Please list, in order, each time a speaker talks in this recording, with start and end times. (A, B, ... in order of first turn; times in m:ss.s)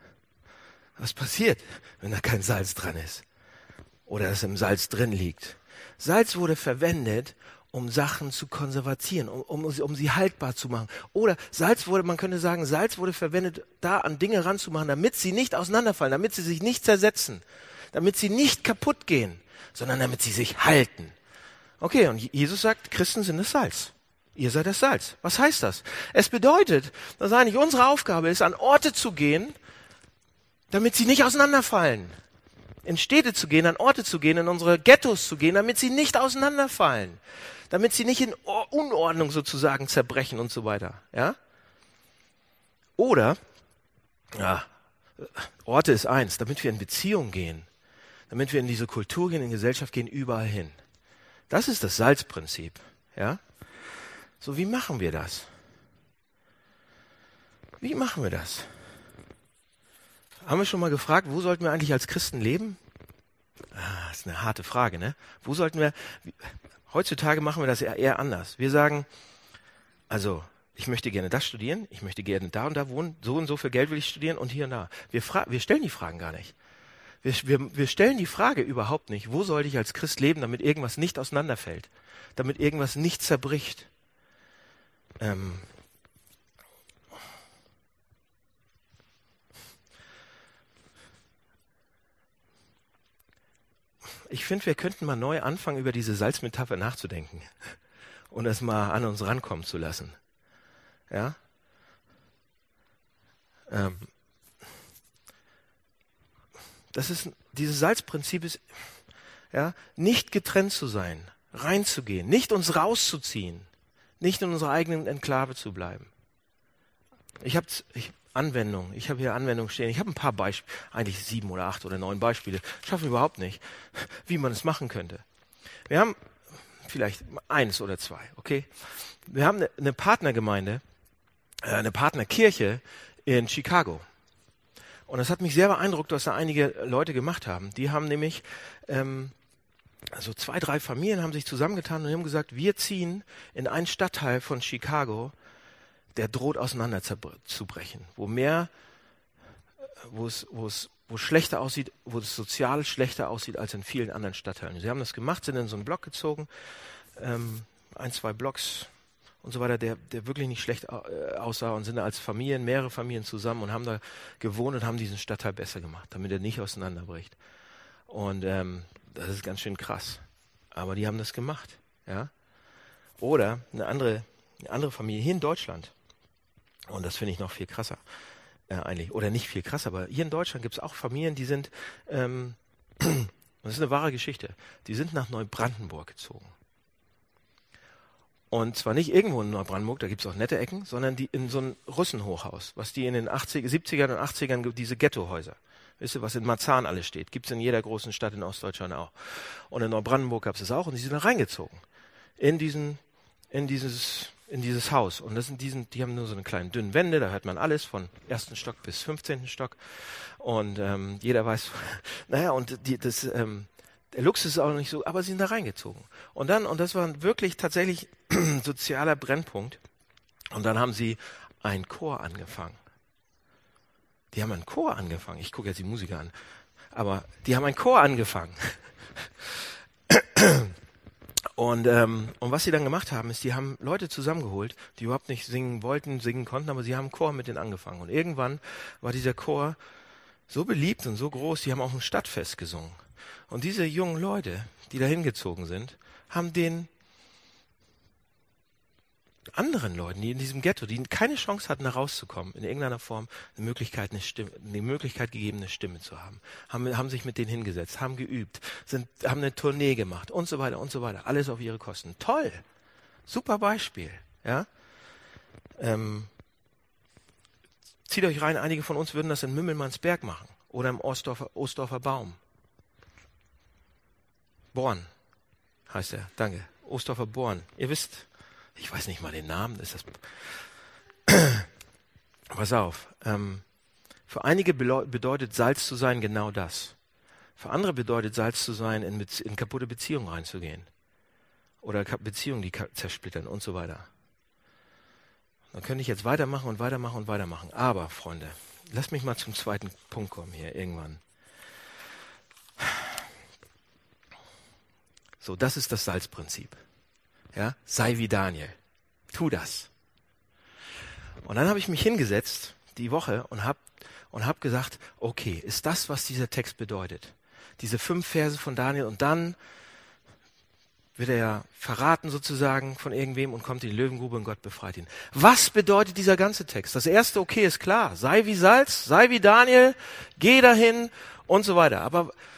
0:01.0-0:03.2 A
0:04.1-0:21.1 A
0:21.8-0:29.5 A
0:30.7-0:32.1 A
0:32.8-0:37.2 A
0:37.7-0:41.4 A
0:43.0-0:43.4 A
0:44.3-0:47.7 A
0:48.3-0:50.8 A
0:51.5-0:53.4 A
0:54.4-0:55.5 A
0:57.8-0:58.7 A
1:00.4-1:02.8 A
1:03.7-1:09.1 A
1:10.1-1:16.5 A
1:17.2-1:23.9 A
1:25.2-1:25.7 A
1:34.3-1:37.7 A
1:38.3-1:40.2 A
1:41.1-1:41.4 A
1:43.7-1:44.1 A
1:46.9-1:48.6 A
1:49.5-1:53.7 A
1:54.2-1:56.1 A
1:57.4-2:05.2 A
2:05.9-2:06.2 A
2:06.8-2:10.8 A
2:11.6-2:14.0 A
2:15.1-2:19.3 A
2:20.1-2:25.3 A
2:26.1-2:28.7 A
2:30.0-2:36.5 A
2:37.2-2:38.9 A
2:39.4-2:47.4 A
2:48.1-2:50.2 A
2:50.7-2:52.3 A
2:53.2-2:55.9 A
2:56.9-2:58.0 A
2:58.7-3:06.5 A
3:08.5-3:21.8 A
3:22.4-3:39.8 A
3:40.5-3:42.8 A
3:44.3-3:46.3 A
3:46.9-3:50.7 A
3:51.6-3:59.8 A
4:00.5-4:06.9 A
4:09.5-4:22.6 A
4:23.3-4:24.7 A
4:25.8-4:26.3 A
4:28.1-4:32.4 A
4:34.7-4:35.1 A
4:35.9-4:40.3 A
4:41.3-4:41.7 A
4:42.5-4:43.6 A
4:44.3-4:47.0 A
4:47.6-4:50.9 A
4:51.8-4:54.1 A
4:55.7-5:01.2 A
5:02.8-5:03.1 A
5:05.4-5:06.8 A
5:07.5-5:08.8 A
5:09.3-5:09.9 A
5:11.4-5:19.6 A
5:21.2-5:32.3 A